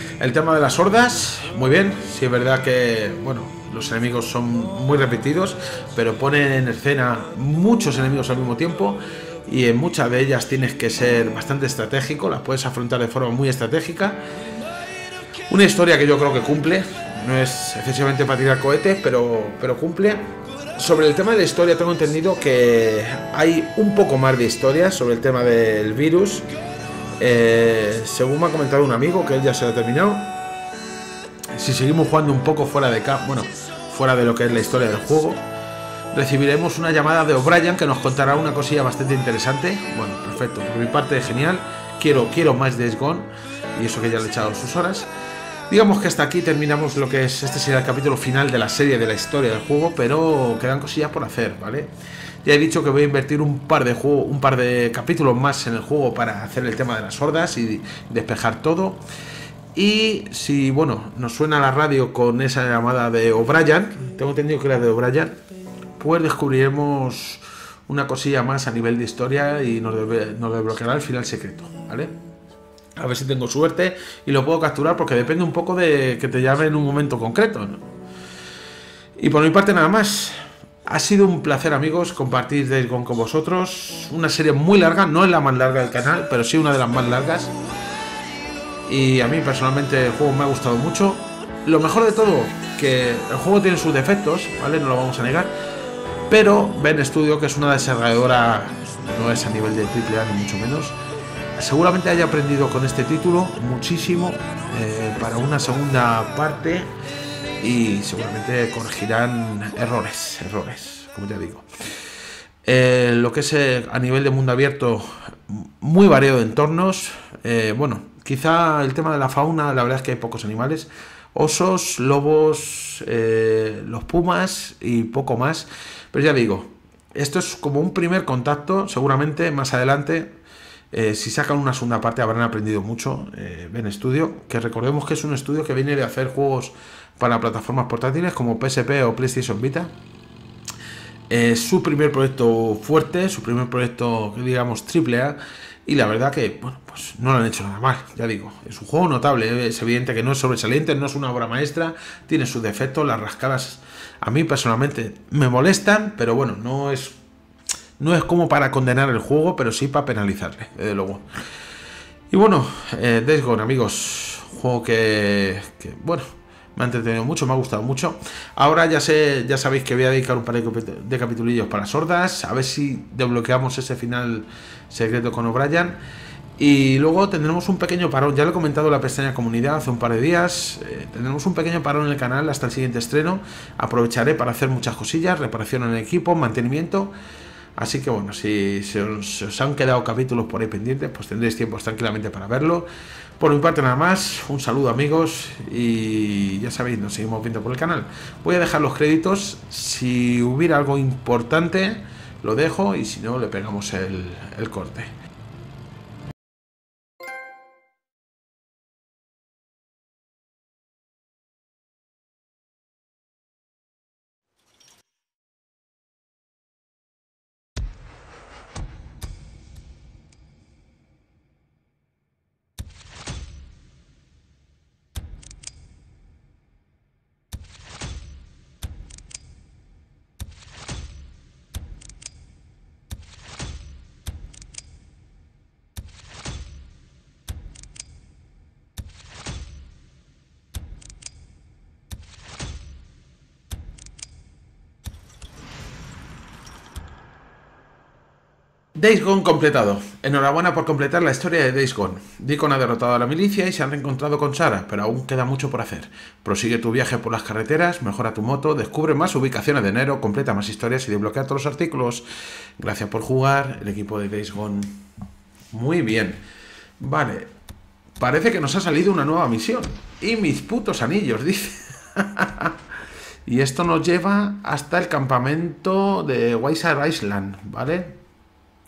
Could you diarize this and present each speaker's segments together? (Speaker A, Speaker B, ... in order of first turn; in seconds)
Speaker A: 0.2-14.2, 15.5-26.4, 27.2-30.3, 31.5-35.4, 36.1-45.1, 45.7-51.9, 52.4-59.0, 59.7-65.4, 66.0-72.1, 73.0-77.8, 79.2-87.5, 88.9-95.5, 96.3-101.0, 101.5-106.9, 107.6-111.7, 112.6-130.4, 130.9-139.9, 141.3-157.2, 158.0-161.2, 162.3-176.0, 176.6-187.1, 187.8-192.9, 193.4-205.1, 248.9-262.2, 262.8-265.0, 265.7-266.4, 267.0-267.5, 268.2-272.8, 273.4-278.2